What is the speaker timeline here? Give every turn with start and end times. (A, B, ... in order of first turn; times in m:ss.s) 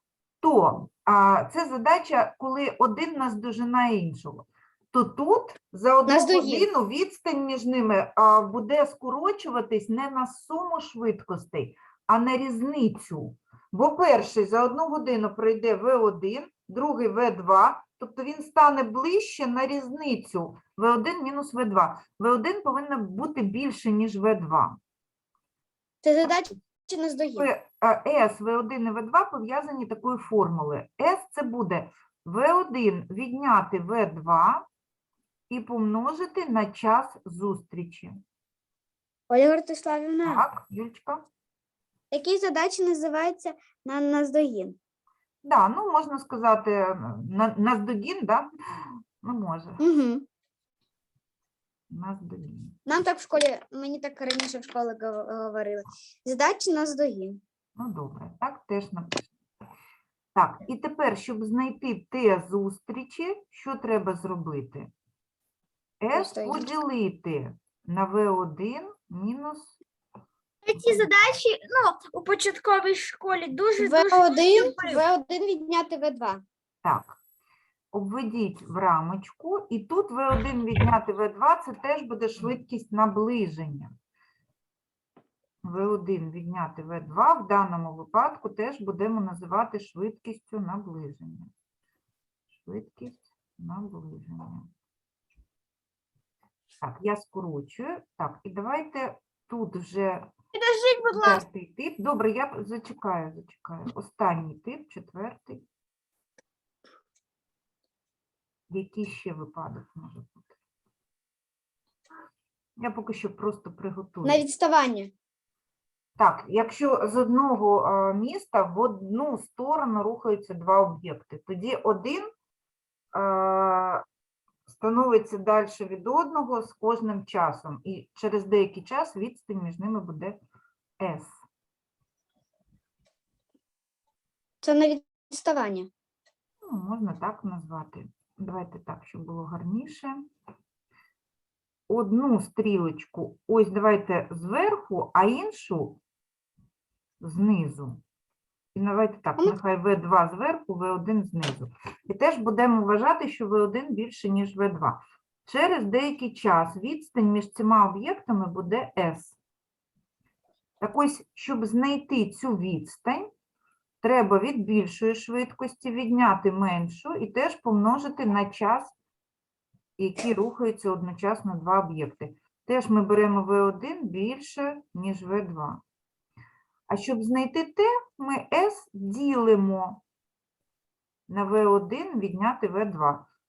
0:00.4-0:24.8 A
0:06.1-0:06.7 B
0:26.0-0:27.5 B
0:27.4-0:34.6 A
0:35.5-0:38.2 A
0:39.3-0:40.4 B
0:40.2-0:41.2 A
0:42.1-0:44.8 B
0:45.4-0:48.5 A
0:49.2-0:49.8 A
0:49.8-0:50.2 B
0:51.9-0:52.8 A
0:52.8-0:57.4 B
0:57.8-0:59.3 A
1:00.3-1:04.9 A
1:06.0-1:09.8 A
1:06.1-1:06.7 B
1:10.6-1:15.0 C
1:10.8-1:11.1 A
1:13.8-1:16.4 B
1:16.8-1:17.2 A
1:17.9-1:23.9 A
1:25.6-1:31.5 A
1:32.6-1:34.7 A
1:36.8-1:40.3 A
1:40.5-1:41.4 C
1:41.1-1:45.6 A
1:48.7-1:50.4 A
1:52.8-1:54.4 A
1:54.2-1:55.1 B
1:56.2-2:02.3 A
2:03.1-2:04.0 A
2:04.7-2:10.4 A
2:11.0-2:11.4 A
2:14.6-2:15.9 B
2:16.6-2:20.2 A
2:21.9-2:26.0 A
2:27.2-2:28.0 A
2:28.7-2:39.4 A
2:40.8-2:43.3 A
2:44.0-2:48.9 A
2:50.0-2:55.8 A
2:56.9-3:00.0 A
3:01.3-3:03.2 A